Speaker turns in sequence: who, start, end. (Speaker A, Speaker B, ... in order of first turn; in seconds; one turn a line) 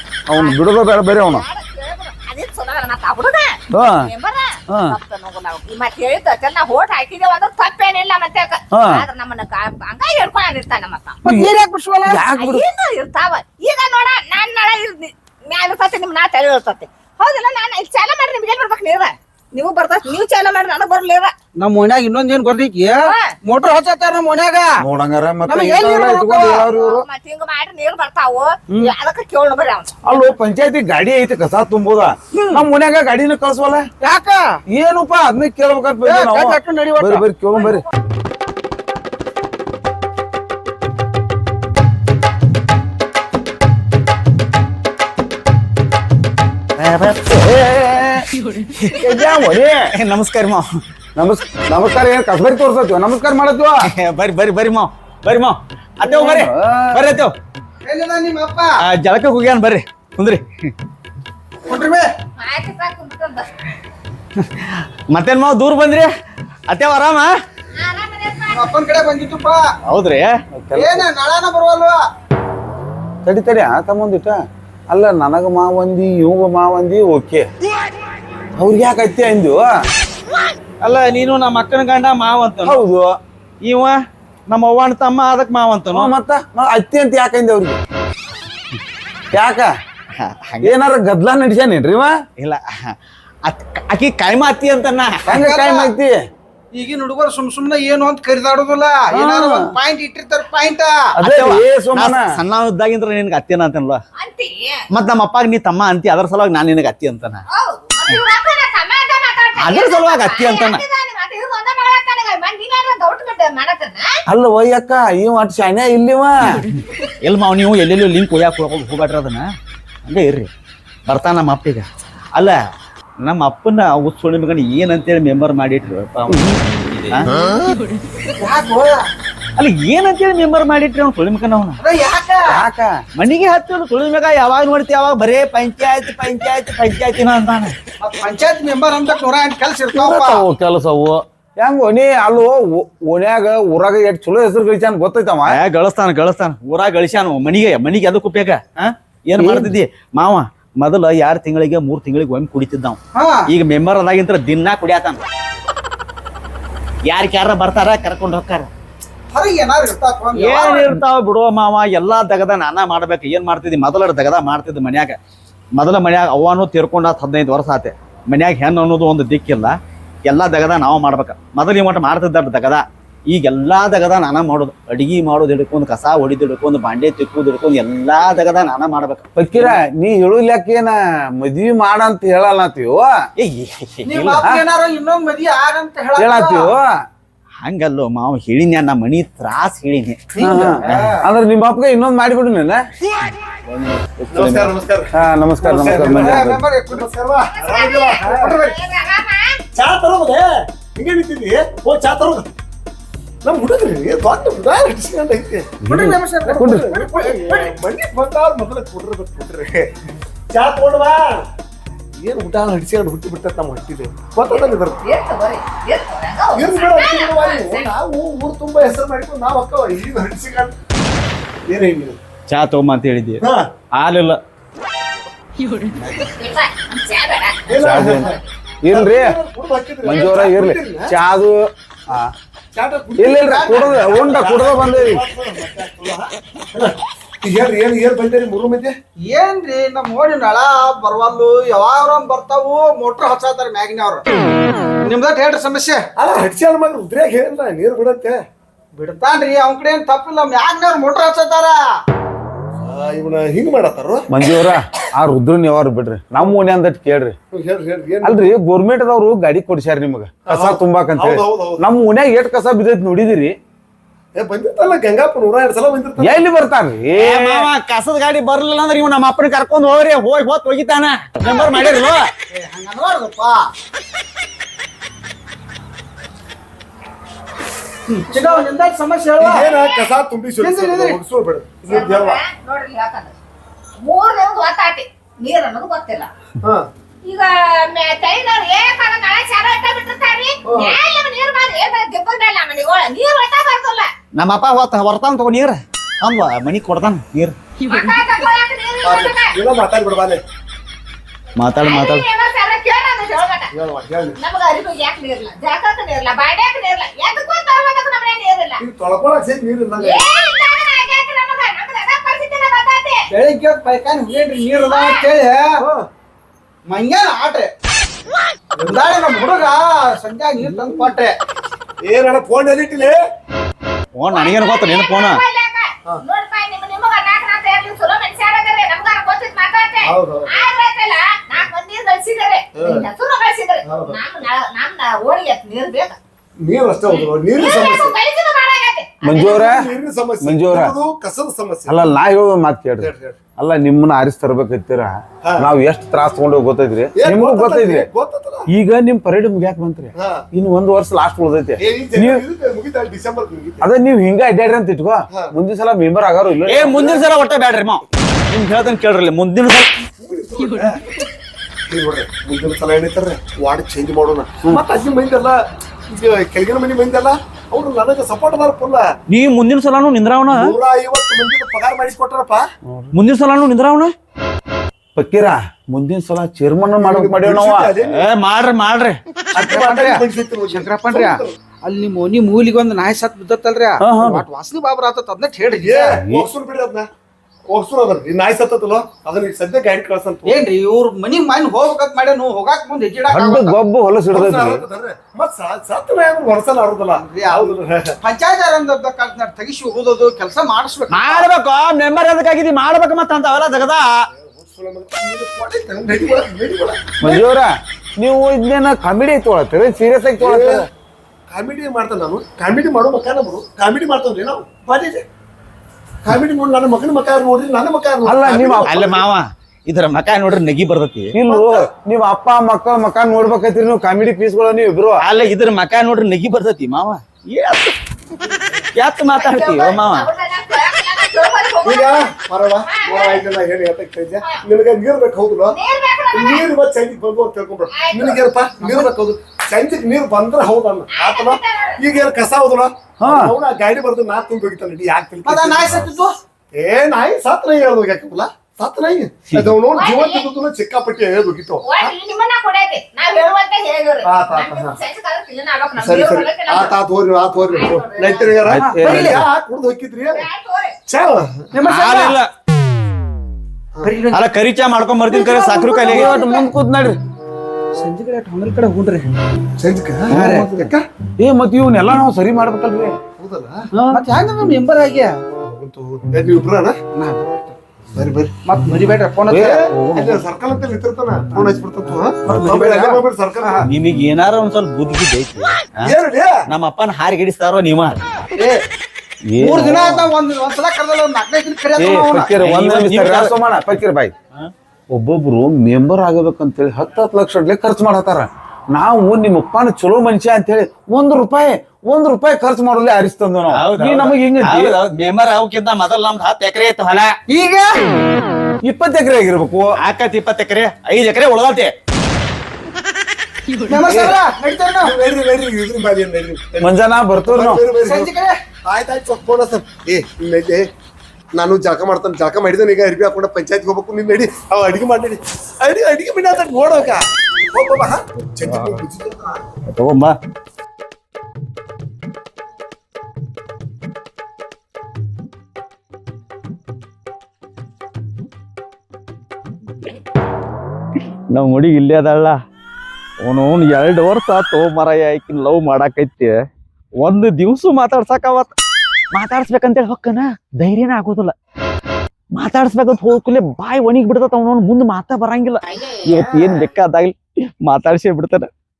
Speaker A: 0.3-1.4
Speaker B: 0.3-0.6
Speaker B: 1.1-11.2
Speaker A: 3.7-4.1
Speaker A: 4.7-5.0
Speaker A: 8.7-9.1
Speaker A: 11.2-11.5
Speaker C: 11.2-12.3
Speaker A: 12.1-12.7
Speaker B: 12.3-21.3
Speaker C: 21.6-24.7
Speaker B: 23.0-23.3
Speaker A: 24.8-27.1
Speaker C: 25.5-26.7
Speaker B: 26.4-29.9
Speaker A: 30.0-33.9
Speaker C: 32.4-32.6
Speaker C: 34.0-34.5
Speaker A: 34.7-37.8
Speaker C: 36.0-37.7
Speaker D: 46.8-47.4
Speaker A: 47.1-48.3
Speaker A: 48.8-49.9
Speaker D: 49.9-50.7
Speaker A: 51.2-53.8
Speaker D: 53.8-57.3
Speaker A: 56.0-57.0
Speaker C: 57.8-58.8
Speaker D: 58.8-60.7
Speaker C: 61.7-62.1
Speaker B: 62.4-63.5
Speaker D: 64.4-66.1
Speaker D: 66.7-67.3
Speaker B: 67.7-68.7
Speaker C: 68.5-69.6
Speaker D: 69.8-70.3
Speaker A: 70.5-71.1
Speaker C: 70.7-72.0
Speaker A: 73.2-74.4
Speaker A: 74.9-77.5
Speaker A: 78.6-79.7
Speaker D: 80.8-82.8
Speaker A: 82.7-83.2
Speaker D: 83.6-83.9
Speaker D: 84.5-86.1
Speaker A: 85.9-87.8
Speaker A: 89.3-89.7
Speaker D: 90.1-90.8
Speaker A: 90.6-92.2
Speaker D: 92.4-92.9
Speaker D: 93.5-95.3
Speaker A: 95.3-96.2
Speaker C: 95.3-95.9
Speaker C: 96.7-101.1
Speaker A: 99.1-99.7
Speaker A: 101.2-102.3
Speaker D: 101.2-104.0
Speaker B: 104.2-104.8
Speaker D: 104.9-107.4
Speaker B: 107.5-114.2
Speaker D: 109.6-110.8
Speaker A: 114.3-116.7
Speaker D: 117.2-119.5
Speaker D: 120.0-120.5
Speaker D: 121.1-122.6
Speaker D: 123.2-127.3
Speaker C: 128.2-129.1
Speaker D: 129.6-131.8
Speaker C: 131.8-132.6
Speaker A: 132.4-133.0
Speaker D: 133.2-137.7
Speaker C: 138.0-140.4
Speaker A: 139.9-145.6
Speaker D: 145.5-155.2
Speaker A: 149.4-149.7
Speaker C: 153.1-153.4
Speaker D: 157.1-158.7
Speaker C: 159.3-161.0
Speaker D: 160.3-165.2
Speaker D: 165.8-179.8
Speaker A: 179.4-183.2
Speaker D: 183.4-184.4
Speaker C: 184.1-186.8
Speaker A: 186.2-186.9
Speaker D: 187.6-191.1
Speaker C: 190.4-191.0
Speaker A: 190.4-192.8
Speaker D: 193.7-194.7
Speaker E: 194.3-198.6
Speaker A: 195.1-196.6
Speaker C: 195.6-197.1
Speaker B: 197.5-199.6
Speaker C: 198.2-198.7
Speaker E: 199.8-202.5
Speaker E: 203.4-205.7
Speaker A: 205.8-206.8
Speaker C: 205.8-207.7
Speaker E: 206.4-211.4
Speaker E: 212.2-215.0
Speaker B: 214.5-217.9
Speaker E: 216.5-220.7
Speaker E: 221.7-222.2
Speaker D: 222.5-223.4
Speaker E: 223.4-223.7
Speaker D: 223.9-224.4
Speaker B: 226.0-228.4
Speaker E: 227.7-231.1
Speaker A: 227.8-228.3
Speaker A: 228.8-229.3
Speaker A: 230.0-232.3
Speaker E: 232.7-238.9
Speaker A: 233.2-235.2
Speaker C: 233.5-234.1
Speaker C: 239.2-244.3
Speaker C: 245.0-246.1
Speaker E: 246.2-248.4
Speaker C: 248.9-251.8
Speaker E: 252.8-254.3
Speaker A: 254.3-257.4
Speaker E: 257.5-258.6
Speaker A: 258.2-263.6
Speaker E: 260.5-261.8
Speaker E: 264.4-266.4
Speaker A: 266.2-267.7
Speaker D: 267.1-272.3
Speaker C: 272.5-273.7
Speaker C: 278.1-279.7
Speaker E: 279.4-282.4
Speaker B: 279.6-280.0
Speaker C: 280.6-281.2
Speaker B: 281.9-283.3
Speaker B: 284.0-286.3
Speaker E: 286.6-286.9
Speaker B: 287.2-294.1
Speaker E: 290.6-291.0
Speaker D: 294.4-297.6
Speaker B: 297.8-299.5
Speaker E: 299.0-300.4
Speaker D: 301.6-302.3
Speaker B: 301.8-303.7
Speaker E: 303.7-304.4
Speaker B: 304.4-308.8
Speaker E: 308.8-310.2
Speaker B: 310.0-313.3
Speaker C: 313.3-315.8
Speaker B: 314.8-315.3
Speaker E: 315.8-316.1
Speaker C: 316.9-317.7
Speaker E: 318.8-319.3
Speaker C: 318.8-321.4
Speaker E: 320.7-321.1
Speaker E: 322.1-323.2
Speaker D: 324.1-325.4
Speaker B: 324.3-336.2
Speaker E: 330.0-330.6
Speaker E: 332.8-333.1
Speaker E: 333.9-334.2
Speaker E: 336.6-338.1
Speaker B: 337.1-339.6
Speaker A: 339.2-339.9
Speaker E: 339.3-342.0
Speaker A: 340.4-340.9
Speaker A: 341.9-348.1
Speaker E: 343.0-343.4
Speaker E: 345.4-345.7
Speaker E: 347.2-348.7
Speaker A: 348.7-352.4
Speaker E: 350.1-350.4
Speaker E: 351.8-353.9
Speaker A: 353.8-357.2
Speaker D: 356.7-360.0
Speaker E: 360.2-361.3
Speaker E: 361.9-369.1
Speaker D: 369.3-370.7
Speaker E: 370.5-372.6
Speaker D: 373.1-374.1
Speaker A: 375.1-377.9
Speaker E: 376.9-378.2
Speaker D: 378.0-379.2
Speaker C: 379.5-386.2
Speaker E: 379.5-381.5
Speaker A: 384.0-384.4
Speaker E: 385.8-387.1
Speaker A: 386.1-386.4
Speaker E: 387.7-390.6
Speaker C: 390.4-393.8
Speaker A: 393.3-394.8
Speaker E: 394.3-398.2
Speaker C: 397.2-401.5
Speaker D: 401.1-404.2
Speaker E: 404.3-407.5
Speaker A: 407.2-410.9
Speaker E: 410.4-410.9
Speaker E: 411.5-415.2
Speaker E: 416.2-419.2
Speaker A: 418.2-419.0
Speaker D: 418.9-421.3
Speaker A: 421.3-425.2
Speaker E: 421.4-421.9
Speaker D: 425.2-427.9
Speaker D: 428.9-430.3
Speaker B: 429.3-432.3
Speaker E: 431.8-435.8
Speaker B: 432.8-433.4
Speaker B: 435.7-436.6
Speaker E: 436.3-446.1
Speaker B: 437.9-438.4
Speaker C: 438.8-439.1
Speaker B: 441.1-442.0
Speaker A: 443.2-443.5
Speaker C: 445.4-446.4
Speaker E: 446.8-452.1
Speaker B: 449.9-450.4
Speaker B: 451.8-456.9
Speaker E: 454.2-455.0
Speaker E: 456.0-460.5
Speaker B: 457.7-458.6
Speaker A: 458.6-459.4
Speaker C: 458.7-459.4
Speaker B: 460.3-460.9
Speaker E: 461.1-461.7
Speaker C: 461.7-462.4
Speaker D: 461.8-462.5
Speaker C: 464.0-464.4
Speaker D: 464.3-466.4
Speaker B: 465.3-466.7
Speaker A: 466.0-467.2
Speaker C: 467.9-469.3
Speaker E: 469.8-471.1
Speaker A: 470.3-473.2
Speaker C: 470.3-470.7
Speaker E: 473.4-473.9
Speaker A: 473.9-474.2
Speaker C: 474.1-475.4
Speaker E: 475.6-477.0
Speaker C: 477.1-477.8
Speaker E: 478.1-478.5
Speaker C: 478.6-479.9
Speaker A: 479.5-480.4
Speaker E: 479.5-483.9
Speaker C: 482.4-483.8
Speaker D: 483.8-486.1
Speaker E: 486.0-486.6
Speaker D: 486.7-488.2
Speaker C: 488.6-488.8
Speaker A: 489.5-490.3
Speaker C: 489.6-492.5
Speaker A: 492.0-494.3
Speaker D: 492.6-493.5
Speaker A: 495.1-504.9
Speaker D: 503.7-507.3
Speaker C: 507.5-508.1
Speaker A: 508.8-509.9
Speaker D: 510.0-511.9
Speaker C: 513.8-515.1
Speaker E: 514.0-514.4
Speaker E: 515.0-518.3
Speaker A: 516.8-517.8
Speaker C: 518.0-518.6
Speaker E: 518.8-520.9
Speaker E: 521.6-529.6
Speaker D: 528.6-529.0
Speaker D: 529.9-530.3
Speaker D: 541.5-542.6
Speaker D: 543.4-546.5
Speaker D: 547.2-548.7
Speaker D: 549.3-551.5
Speaker D: 552.5-558.7